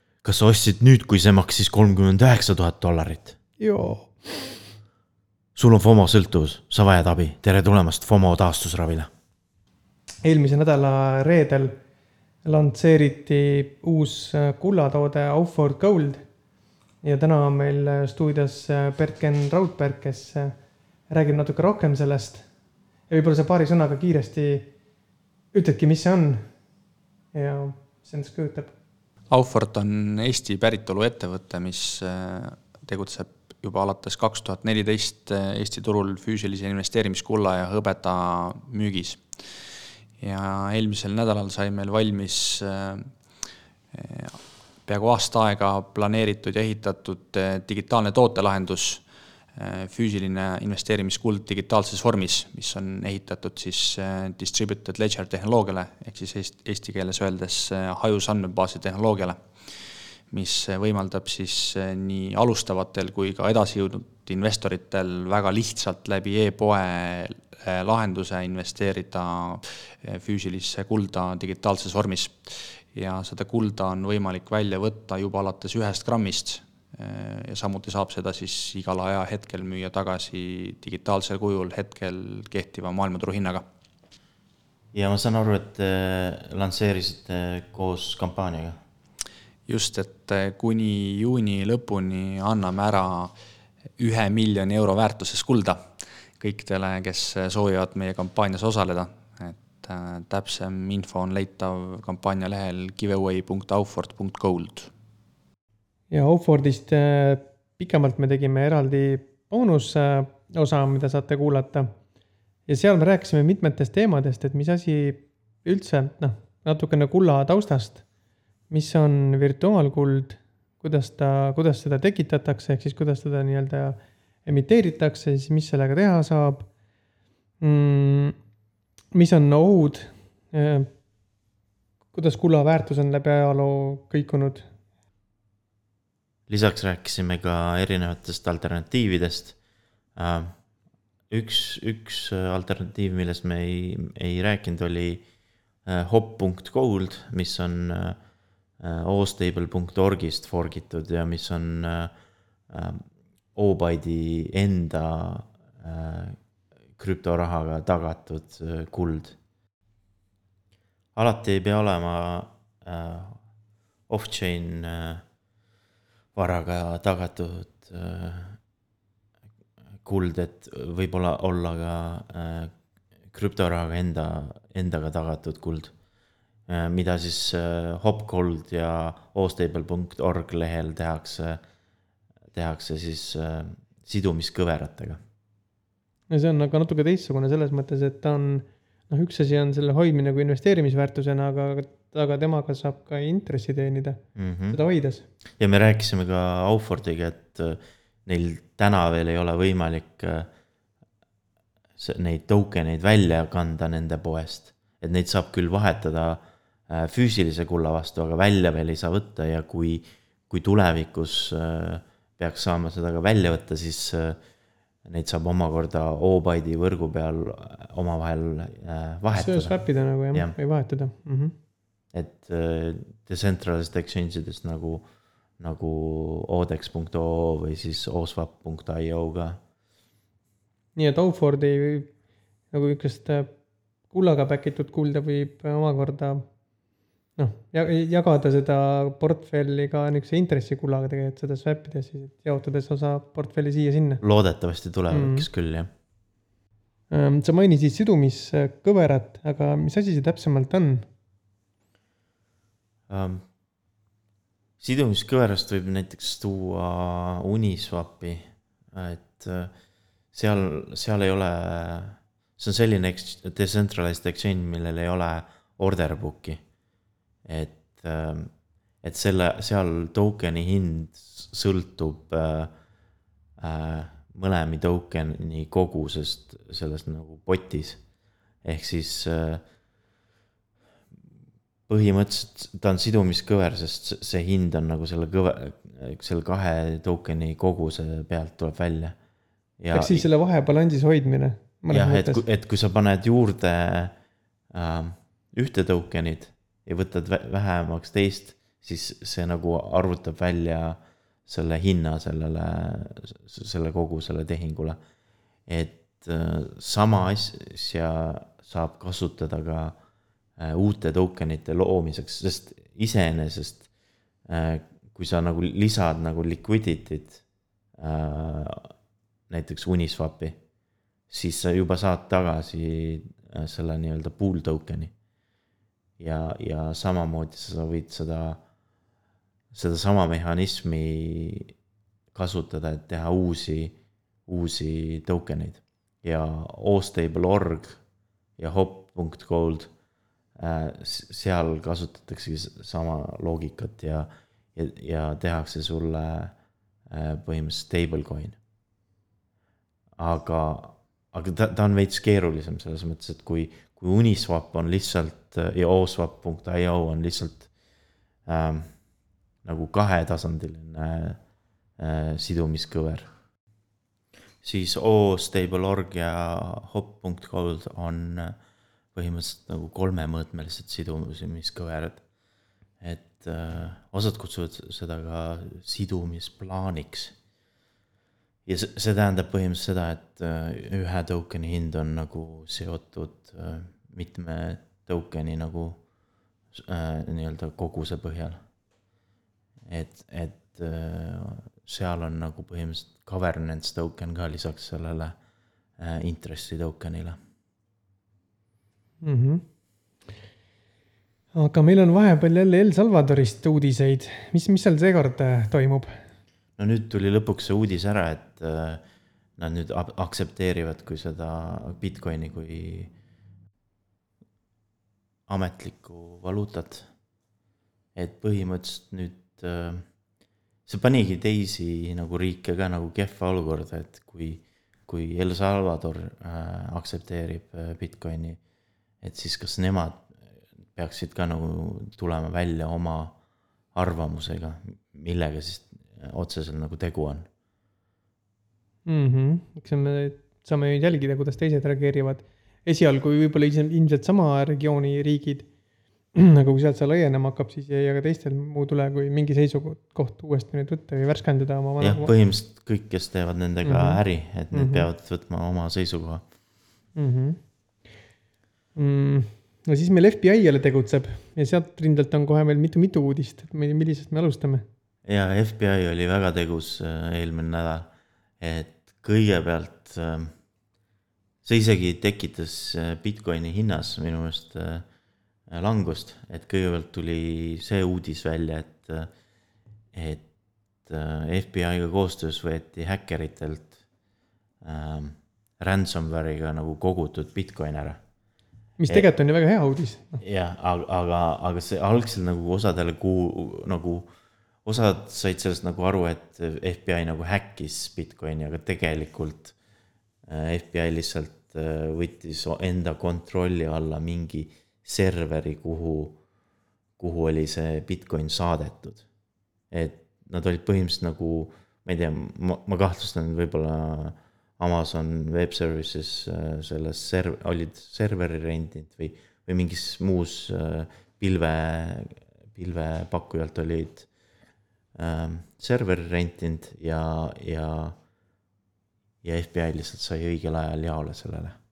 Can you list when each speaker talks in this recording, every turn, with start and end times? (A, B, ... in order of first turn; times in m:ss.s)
0:00.2-0:03.4 A
0:03.6-0:04.7 B
0:05.5-0:09.1 A
0:10.2-0:11.8 B
0:12.4-0:16.3 B
0:17.0-0:20.6 B
0:21.1-0:22.5 B
0:23.1-0:24.7 B
0:25.5-0:26.5 B
0:27.3-0:28.7 B
0:29.3-0:39.7 C
0:40.2-1:23.7 C
1:24.9-1:28.8 A
1:29.7-1:33.3 C
1:34.0-1:44.9 C
1:46.1-1:51.9 B
1:52.7-1:58.0 B
1:58.7-2:06.7 B
2:07.6-2:08.3 B
2:09.1-2:10.9 B
2:12.1-2:14.7 B
2:16.5-2:19.6 A
2:20.2-2:20.6 A
2:21.3-2:25.2 A
2:25.8-2:28.2 A
2:28.8-2:32.1 A
2:32.7-2:36.4 A
2:37.0-2:39.4 A
2:41.2-2:43.4 A
2:44.1-2:45.2 A
2:46.3-2:48.6 A
2:50.0-2:52.7 A
2:53.3-2:55.9 A
2:56.7-3:01.6 A
3:02.5-3:05.2 A
3:06.3-3:15.2 B
3:14.3-3:14.8 A
3:15.6-3:20.5 A
3:22.0-3:34.4 A
3:35.0-3:40.6 A
3:39.4-3:41.5 B
3:42.1-3:45.1 A
3:45.6-3:49.6 A
3:51.0-3:52.1 B
3:52.7-3:53.5 B
3:54.1-3:56.5 B
3:57.4-4:04.2 B
4:04.2-4:05.9 A
4:05.1-4:05.5 B
4:07.1-4:11.1 B
4:13.1-4:13.4 A
4:14.8-4:19.7 A
4:20.3-4:26.6 A
4:27.4-4:28.5 A
4:29.0-4:32.7 A
4:33.6-4:38.0 A
4:38.6-4:39.6 A
4:41.9-4:49.2 A
4:49.8-4:50.3 A
4:49.9-4:52.4 B
4:51.9-4:54.2 A
4:54.7-5:05.0 A
5:05.7-5:10.0 A
5:10.6-5:13.9 A
5:14.4-5:17.4 A
5:18.0-5:18.9 A
5:19.5-5:20.6 A
5:21.3-5:25.1 A
5:26.2-5:28.6 A
5:29.7-5:31.7 A
5:32.3-5:34.0 A
5:34.5-5:38.0 A
5:38.6-5:39.9 A
5:40.6-5:46.5 A
5:47.1-5:48.6 A
5:50.2-5:57.7 A
5:58.4-5:58.9 A
5:59.6-6:01.4 A
6:02.0-6:03.3 A
6:04.6-6:08.6 A
6:09.1-6:12.2 A
6:13.0-6:17.3 A
6:18.7-6:26.0 A
6:26.7-6:28.6 A
6:29.9-6:35.4 A
6:36.0-6:37.4 A
6:39.2-6:39.6 B
6:41.5-6:46.2 B
6:46.8-6:49.0 A
6:49.6-6:53.1 A
6:55.5-6:57.1 A
6:58.2-7:00.0 A
7:00.9-7:08.6 A
7:09.2-7:10.4 A
7:10.9-7:13.4 A
7:13.9-7:17.5 A
7:19.0-7:25.7 B
7:26.3-7:32.3 B
7:32.0-7:36.4 A
7:33.8-7:35.1 B
7:37.2-7:37.6 B
7:38.9-7:44.8 B
7:45.2-7:50.5 A
7:51.6-7:55.1 A
7:55.7-7:59.3 A
8:00.1-8:00.4 A
8:01.0-8:04.0 A
8:04.8-8:08.2 A
8:09.0-8:10.4 B
8:10.4-8:14.3 A
8:14.8-8:19.8 A
8:20.4-8:26.4 A
8:27.2-8:29.3 A
8:29.9-8:44.3 A
8:45.1-8:48.2 A
8:49.4-8:51.8 A